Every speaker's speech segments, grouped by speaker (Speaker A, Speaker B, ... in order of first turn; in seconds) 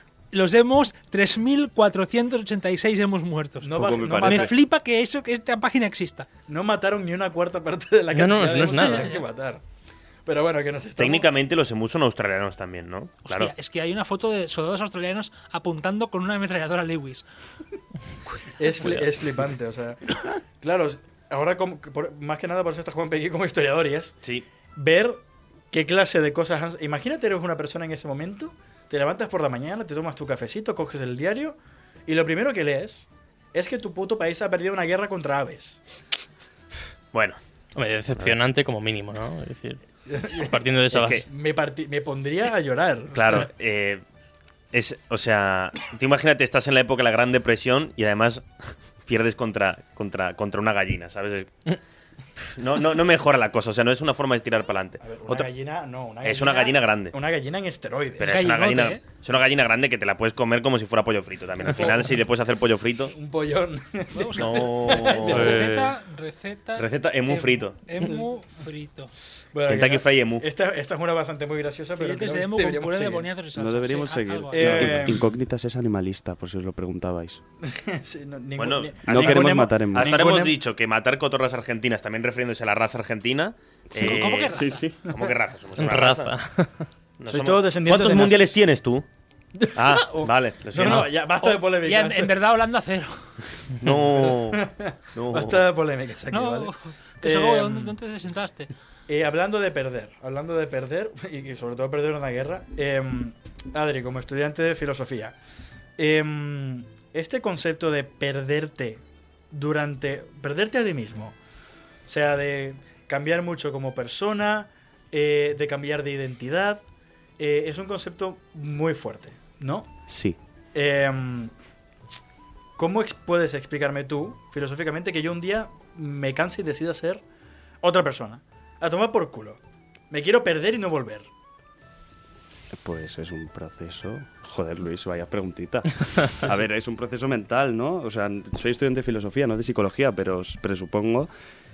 Speaker A: 0.3-6.3, 8.7-9.2, 13.2-17.2, 58.2-59.0, 64.1-69.1, 72.0-75.1, 83.9-84.8, 91.4-93.3, 96.3-98.7
Speaker B: 3.6-4.5, 6.5-9.6, 10.2-11.3, 18.6-24.2, 24.8-35.8, 40.1-43.5, 55.0-58.4, 61.7-62.1, 63.1-65.6, 69.5-73.3, 74.5-75.3, 77.7-80.5, 87.3-88.6, 89.5-92.3, 93.9-98.0, 99.1-105.3, 106.0-111.3, 112.1-116.8, 117.4-119.9, 120.7-121.5, 122.8-127.2, 127.8-129.6, 130.1-131.3
Speaker C: 3.7-4.5, 73.5-77.4, 79.1-80.2, 83.9-84.9, 120.1-120.4, 132.7-141.3
Speaker D: 8.1-9.2, 37.7-39.8, 40.4-41.2, 65.3-65.9, 85.8-86.8
Speaker E: 11.0-13.5, 37.1-37.4, 40.9-41.2, 43.1-44.0, 44.7-51.7, 52.5-55.5, 56.2-57.1, 58.2-63.1, 64.4-65.6, 66.8-67.8, 69.7-70.5, 78.6-86.3, 87.2-89.0, 89.7-91.1, 93.8-94.6, 95.1-95.7